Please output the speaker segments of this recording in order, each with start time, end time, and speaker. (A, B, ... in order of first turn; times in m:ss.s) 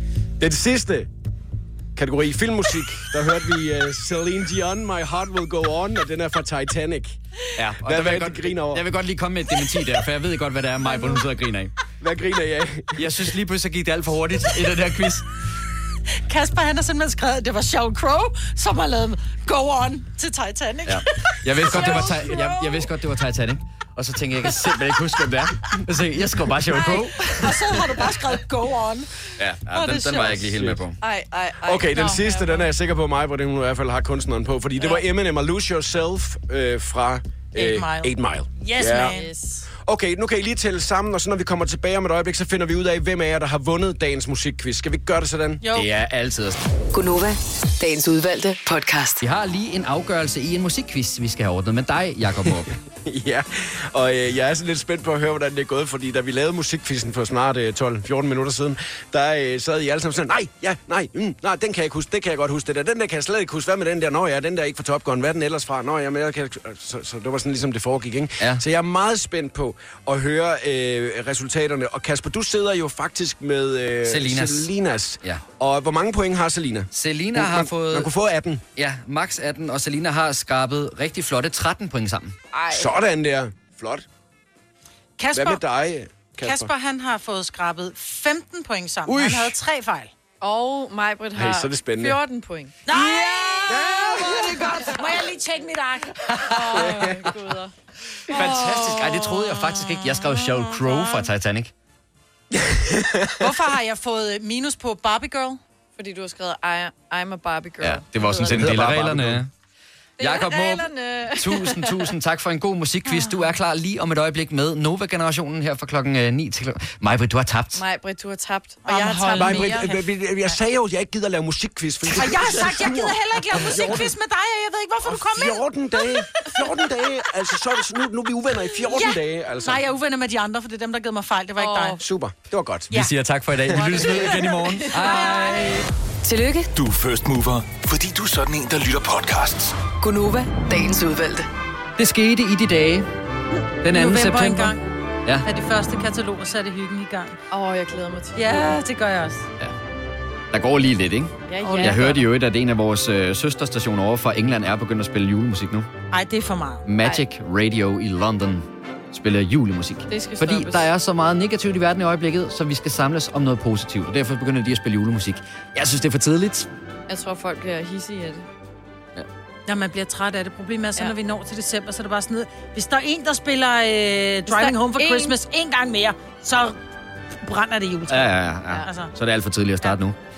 0:00.4-0:01.1 A
0:02.0-0:07.2 A
0:07.6-0:11.7 B
0:07.8-0:08.8 A
0:10.9-0:11.2 C
0:12.0-0:13.1 A
0:13.0-0:15.2 B
0:16.3-0:22.9 C
0:20.8-0:27.4 B
0:21.7-0:22.4 D
0:26.7-0:27.5 D
0:26.8-0:30.5 C
0:29.4-0:31.0 B
0:30.4-0:30.8 A
0:31.0-0:32.7 D
0:31.6-0:39.1 A
0:31.9-0:32.4 C
0:37.5-0:39.3 C
0:38.8-0:39.7 D
0:39.8-0:45.6 A
0:45.6-0:45.9 C
0:45.7-0:46.6 B
0:46.9-0:49.2 E
0:49.2-0:52.7 B
0:53.0-1:18.6 A
1:14.0-1:14.7 B
1:16.9-1:18.1 B
1:18.8-1:22.4 B
1:22.5-1:22.9 D
1:22.7-1:24.0 A
1:25.2-1:25.6 C
1:25.3-1:26.7 A
1:26.4-1:30.1 C
1:29.1-1:29.5 B
1:30.4-1:32.7 D
1:31.3-1:32.2 A
1:32.8-1:37.1 C
1:33.7-1:34.7 A
1:36.4-1:37.7 D
1:36.7-1:37.1 A
1:38.3-1:41.7 B
1:38.3-1:41.1 C
1:42.9-1:43.3 A
1:43.4-1:45.6 C
1:46.0-1:49.0 D
1:47.8-1:49.5 B
1:48.5-1:49.2 A
1:48.7-1:49.4 F
1:50.2-1:52.1 D
1:50.2-1:57.8 B
1:53.0-1:53.5 C
1:57.7-1:59.9 D
1:58.8-2:00.6 C
1:59.4-2:04.1 A
2:02.1-2:06.7 C
2:05.0-2:09.8 A
2:08.8-2:12.0 C
2:11.6-2:12.0 D
2:12.0-2:12.9 A
2:12.9-2:15.8 B
2:13.7-2:15.3 C
2:13.9-2:15.8 D
2:16.2-2:16.7 E
2:16.7-2:19.8 F
2:20.0-2:21.5 E
2:22.0-2:23.1 B
2:23.8-2:25.4 B
2:23.8-2:24.9 C
2:25.4-2:27.4 C
2:27.5-2:28.8 D
2:28.3-2:29.5 C
2:30.5-2:35.9 B
2:31.5-2:32.2 D
2:31.6-2:32.0 C
2:36.1-2:36.8 C
2:36.8-2:46.7 B
2:40.1-2:40.9 D
2:47.1-2:48.5 D
2:49.7-2:56.8 C
2:54.4-2:55.3 D
2:57.4-2:59.1 C
2:58.1-3:00.2 B